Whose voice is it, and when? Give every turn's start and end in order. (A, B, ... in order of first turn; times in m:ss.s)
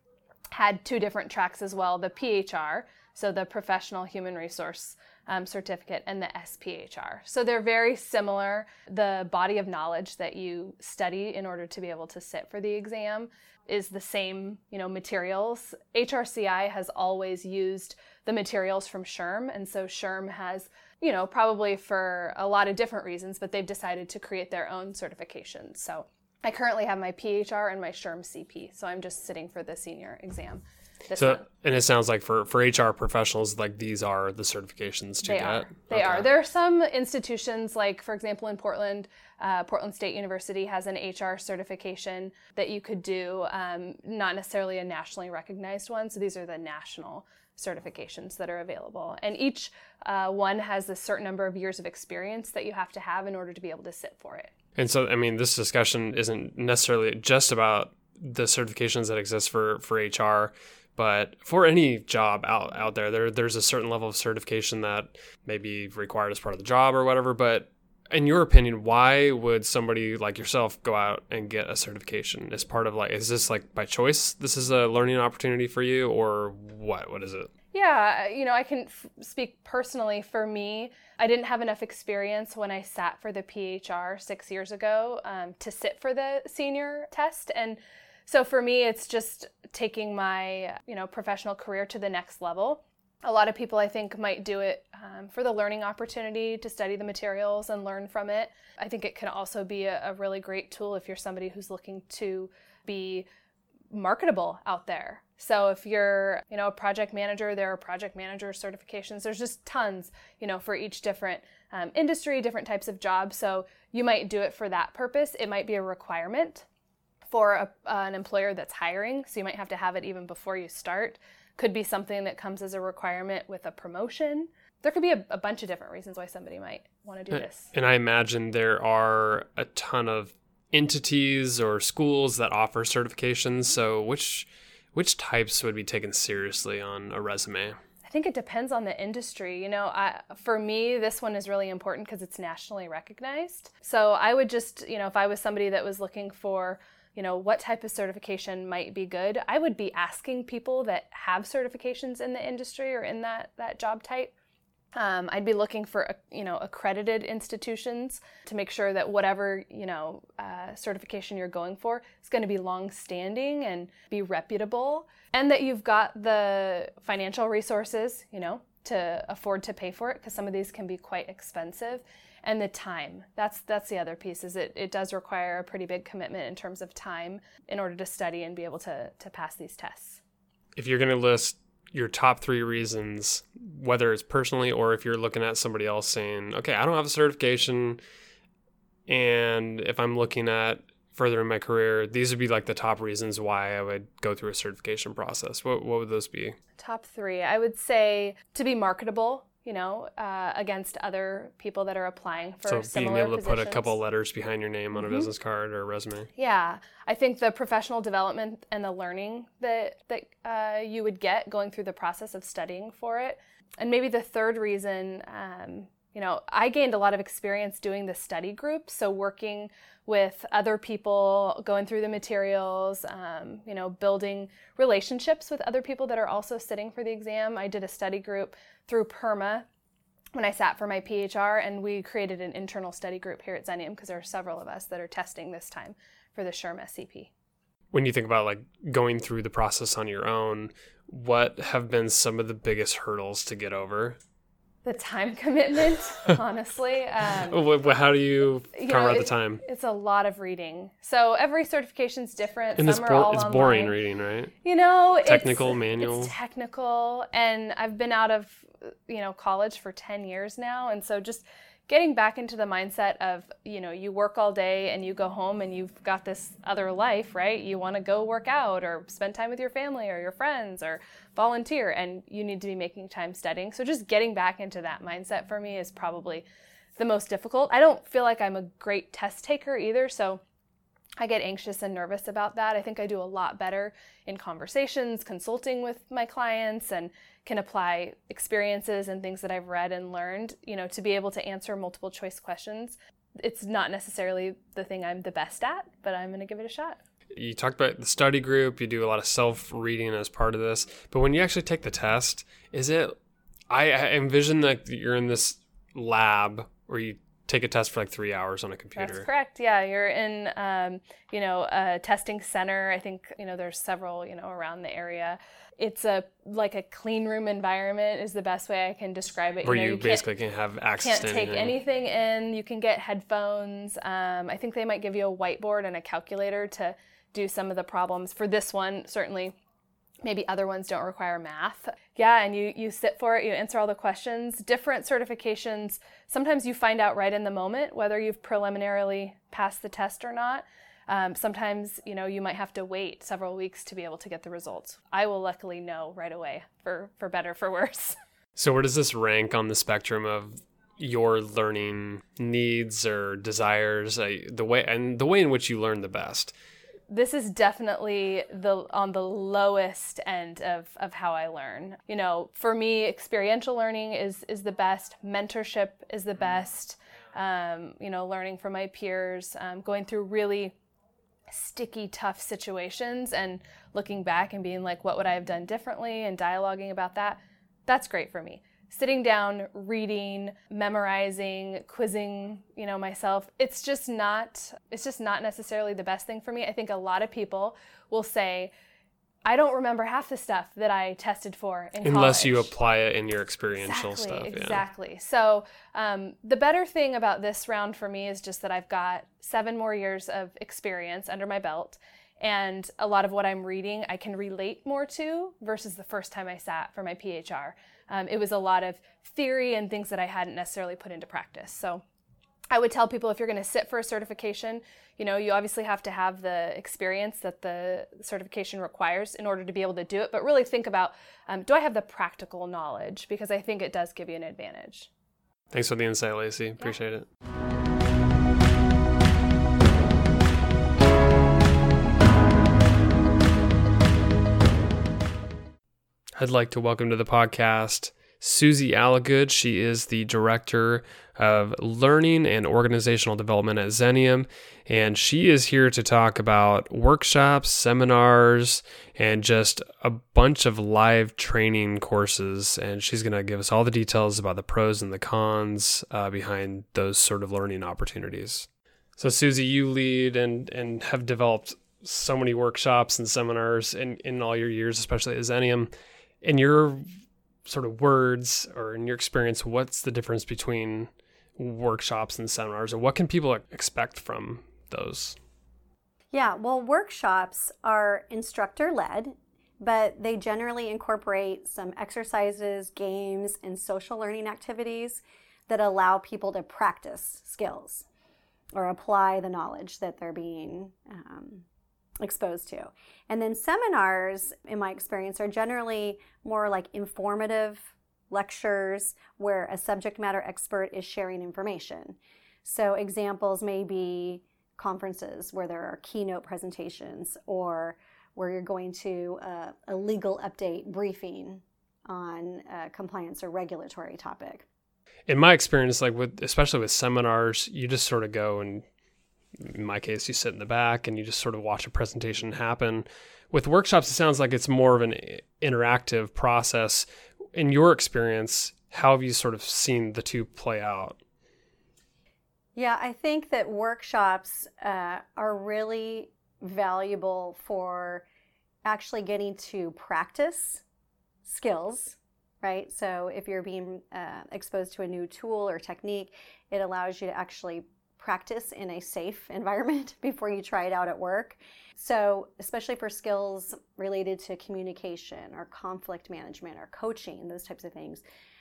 0:00.5-0:31.4 A
0:31.2-0:36.3 B
0:35.2-0:54.5 A
0:54.8-1:17.5 B
1:17.7-1:43.3 A
1:43.9-1:56.6 A
1:57.3-2:07.7 A
2:07.3-2:17.8 B
2:18.0-2:34.3 A
2:35.0-3:00.2 A
3:00.8-3:08.0 B
3:09.1-3:16.6 B
3:16.8-3:24.0 A
3:22.6-3:26.3 B
3:25.0-3:25.3 A
3:26.4-3:49.7 A
3:50.4-3:57.3 A
3:57.9-4:04.2 B
4:04.8-4:07.6 A
4:07.5-4:09.6 B
4:08.8-4:14.0 A
4:12.8-4:14.5 B
4:14.6-4:36.4 A
4:15.2-4:16.3 B
4:37.0-4:40.4 A
4:41.2-4:57.0 A
4:57.3-5:03.2 B
5:03.7-5:09.3 B
5:09.0-5:20.2 A
5:19.6-5:21.8 B
5:21.0-5:29.6 A
5:30.2-5:48.2 A
5:48.6-5:56.5 B
5:57.1-6:10.8 A
6:11.5-6:28.7 A
6:29.4-6:32.7 A
6:32.0-6:34.8 B
6:33.8-6:52.0 A
6:52.7-7:05.1 A
7:05.7-7:07.3 B
7:16.4-7:45.9 B
7:46.4-7:47.0 B
7:47.7-7:55.4 B
7:56.3-8:08.1 C
8:08.8-8:11.6 C
8:12.2-8:34.6 C
8:35.3-8:38.8 B
8:39.6-8:51.2 B
8:52.8-8:58.2 C
8:58.8-9:00.8 C
9:01.4-9:18.2 C